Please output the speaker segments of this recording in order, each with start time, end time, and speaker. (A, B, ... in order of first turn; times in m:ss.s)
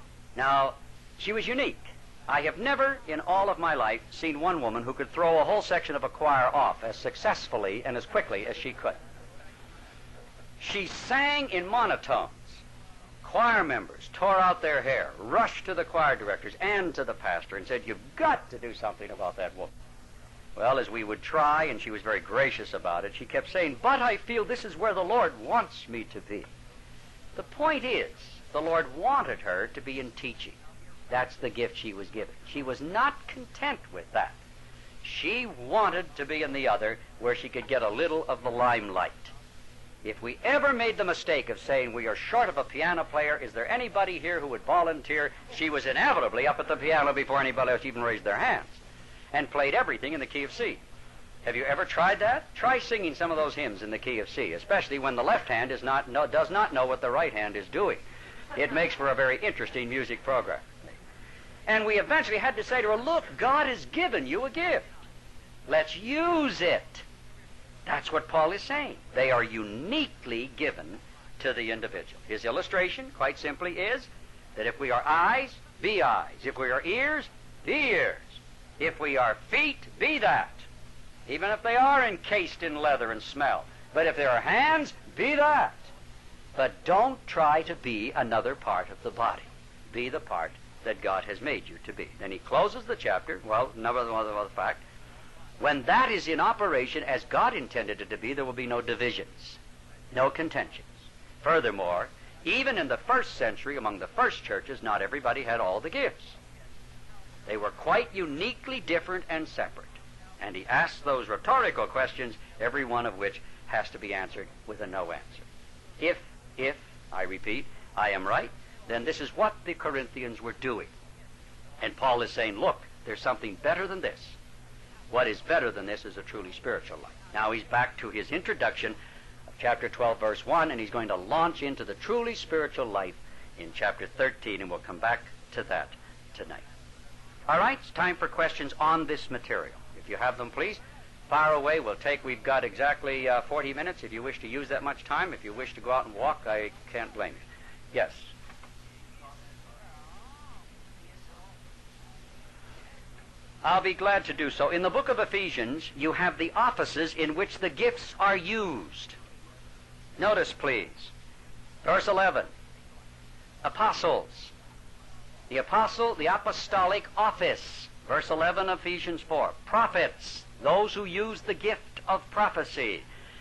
0:00.4-0:09.0 A
0:10.6-0:12.6 A
0:13.2-0:19.7 A
0:20.6-0:26.5 A
0:27.3-0:30.6 A
0:31.1-0:34.4 A
0:35.0-0:39.3 A
0:40.0-0:48.8 A
0:49.3-0:50.8 A
0:51.4-0:58.0 A
0:58.5-1:00.9 A
1:01.7-1:04.9 A
1:05.7-1:07.0 A
1:07.8-1:20.7 A
1:21.3-1:25.9 A
1:26.6-1:34.8 A
1:35.6-1:39.6 A
1:40.1-1:46.4 A
1:47.4-1:55.4 A
1:56.0-2:00.9 A
2:01.8-2:04.4 A
2:05.1-2:09.0 A
2:09.5-2:16.6 A
2:17.5-2:28.3 A
2:33.6-2:39.2 A
2:40.2-2:41.1 A
2:41.8-2:42.5 A
2:43.6-2:44.5 A
2:45.5-2:53.0 A